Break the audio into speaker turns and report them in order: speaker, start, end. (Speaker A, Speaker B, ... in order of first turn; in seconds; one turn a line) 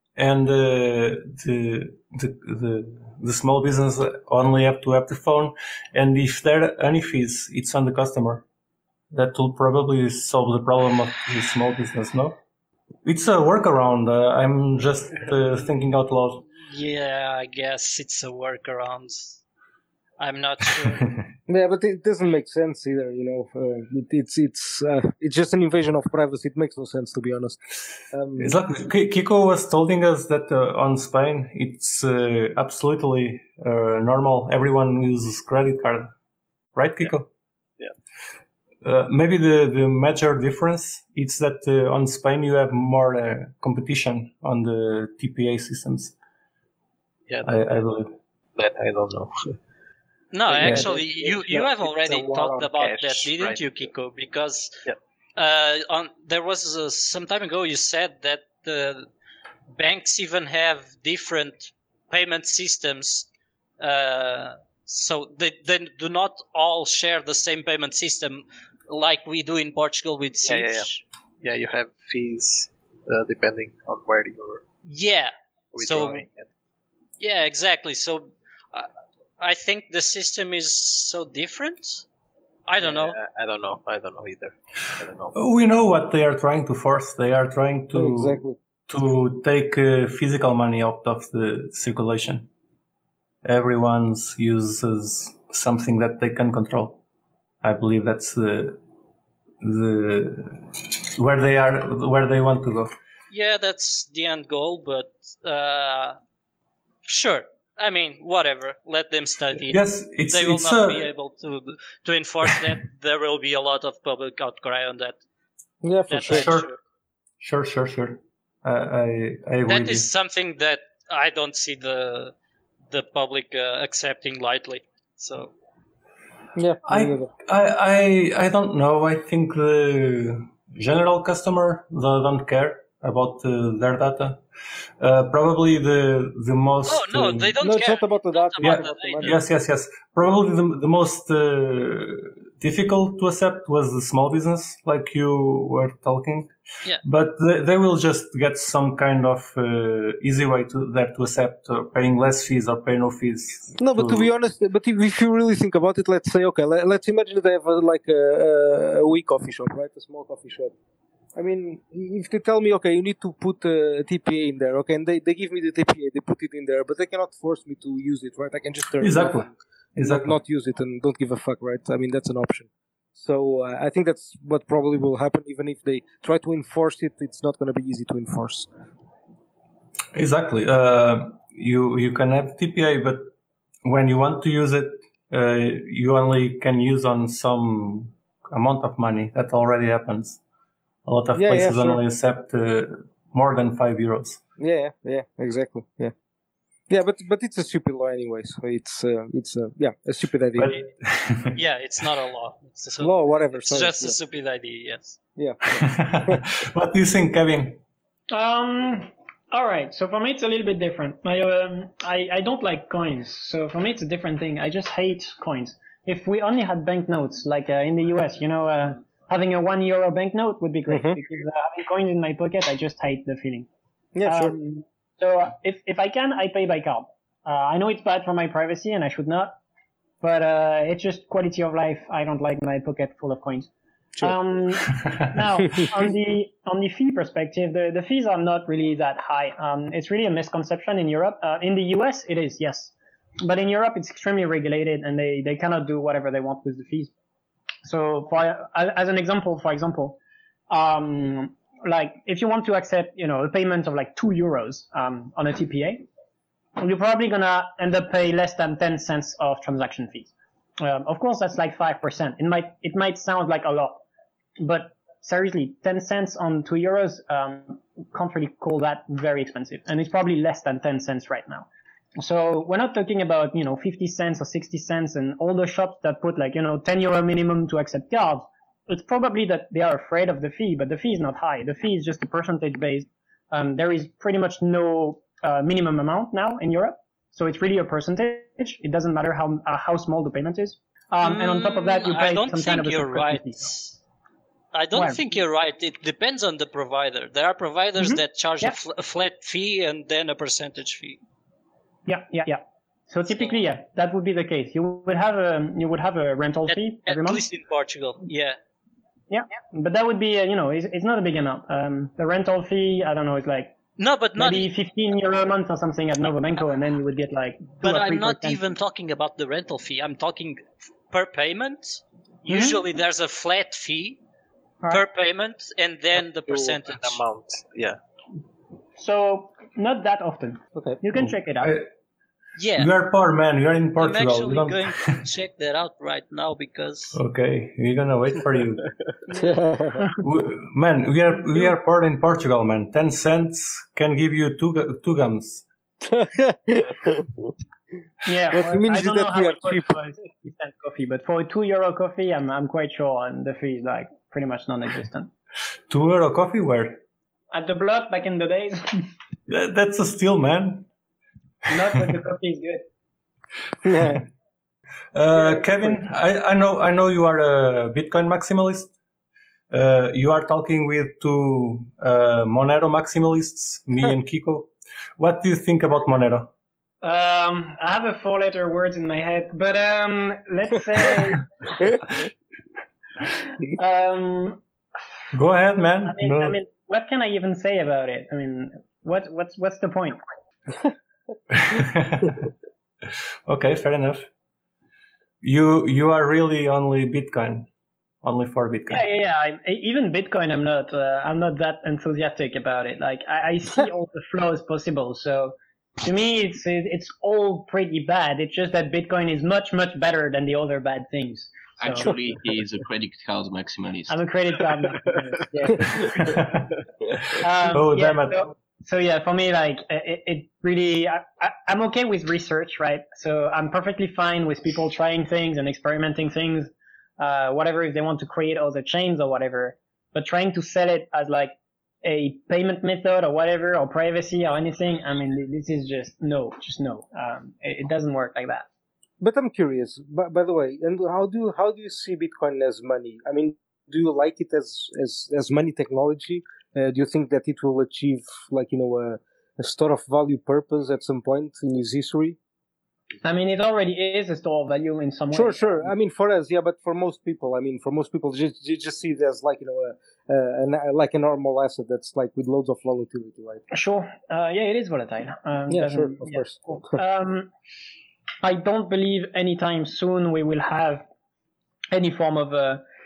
Speaker A: 0.2-8.5
Speaker A: 9.1-12.4
Speaker A: 13.1-16.4
Speaker B: 16.6-19.4
Speaker B: 20.2-21.1
Speaker A: 20.9-21.3
Speaker C: 21.5-28.6
Speaker A: 28.4-36.1
Speaker A: 36.8-37.3
Speaker A: 38.8-46.1
Speaker D: 47.3-47.8
Speaker A: 47.4-48.1
Speaker D: 48.6-49.6
Speaker B: 50.3-54.8
Speaker D: 50.5-53.9
Speaker A: 50.6-50.9
Speaker B: 55.4-59.1
Speaker B: 59.8-63.3
Speaker B: 63.8-71.0
Speaker D: 70.4-74.6
Speaker B: 74.9-76.2
Speaker D: 75.7-76.5
Speaker B: 77.2-82.1
Speaker B: 82.7-83.2
Speaker D: 82.8-85.4
Speaker A: 85.3-92.5
Speaker C: 87.9-88.6
Speaker A: 93.4-97.0
Speaker A: 97.6-98.8
Speaker A: 99.6-102.9
Speaker B: 103.3-106.2
Speaker B: 107.0-115.2
Speaker A: 109.7-111.1
Speaker C: 115.8-116.5
Speaker B: 116.1-116.8
Speaker A: 116.3-116.7
Speaker A: 117.4-120.1
Speaker B: 119.7-122.3
Speaker B: 122.9-125.5
Speaker C: 126.6-127.3
Speaker A: 126.8-134.4
Speaker A: 135.0-137.6
Speaker B: 136.8-139.4
Speaker C: 137.6-139.4
Speaker A: 138.6-154.3
Speaker C: 153.8-160.7
Speaker C: 161.3-169.5
Speaker A: 169.0-170.4
Speaker C: 170.0-178.7
Speaker A: 180.1-183.3
Speaker A: 183.8-190.4
Speaker A: 191.1-194.4
Speaker C: 191.3-192.0
Speaker C: 194.6-196.1
Speaker C: 196.9-200.7
Speaker A: 200.6-201.6
Speaker B: 201.6-205.2
Speaker C: 203.0-204.2
Speaker C: 205.4-206.4
Speaker A: 205.7-207.8
Speaker E: 208.3-223.7
Speaker C: 220.9-221.2
Speaker C: 224.2-224.6
Speaker E: 224.3-229.6
Speaker E: 230.2-233.7
Speaker E: 234.2-247.1
Speaker A: 234.9-235.3
Speaker E: 247.8-250.2
Speaker E: 250.7-256.1
Speaker E: 256.8-264.0
Speaker E: 264.6-293.7
Speaker B: 291.2-294.0
Speaker B: 294.7-301.2
Speaker E: 294.9-295.2
Speaker E: 298.0-298.8
Speaker E: 302.1-307.4
Speaker B: 306.7-308.6
Speaker E: 309.3-313.8
Speaker B: 314.0-314.7
Speaker E: 314.4-318.6
Speaker B: 317.8-324.2
Speaker E: 322.5-322.8
Speaker B: 324.9-327.2
Speaker D: 326.5-328.0
Speaker E: 329.0-331.7
Speaker C: 330.8-331.0
Speaker A: 331.6-331.9
Speaker B: 332.6-332.9
Speaker A: 332.8-335.2
Speaker B: 334.0-337.2
Speaker A: 337.1-338.8
Speaker C: 339.4-340.1
Speaker A: 340.2-345.6
Speaker C: 346.1-347.3
Speaker E: 348.2-355.3
Speaker C: 348.5-349.9
Speaker A: 355.9-357.0
Speaker E: 357.5-359.1
Speaker A: 359.5-360.9
Speaker E: 361.7-362.9
Speaker C: 363.8-364.2
Speaker A: 365.1-368.9
Speaker E: 365.4-365.9
Speaker A: 369.7-376.5
Speaker E: 377.0-381.5
Speaker E: 383.7-384.6
Speaker A: 385.3-386.6
Speaker E: 386.0-390.2
Speaker A: 391.5-392.5
Speaker A: 393.5-394.3
Speaker A: 395.4-397.7
Speaker A: 398.2-399.0
Speaker E: 398.9-412.1
Speaker F: 411.8-414.2
Speaker E: 414.1-416.3
Speaker A: 416.1-416.7
Speaker A: 417.2-418.5
Speaker E: 417.4-438.7
Speaker C: 439.2-452.4
Speaker E: 453.2-455.9
Speaker C: 455.3-463.6
Speaker E: 463.7-467.5
Speaker C: 465.7-466.7
Speaker E: 468.4-471.0
Speaker E: 471.9-472.8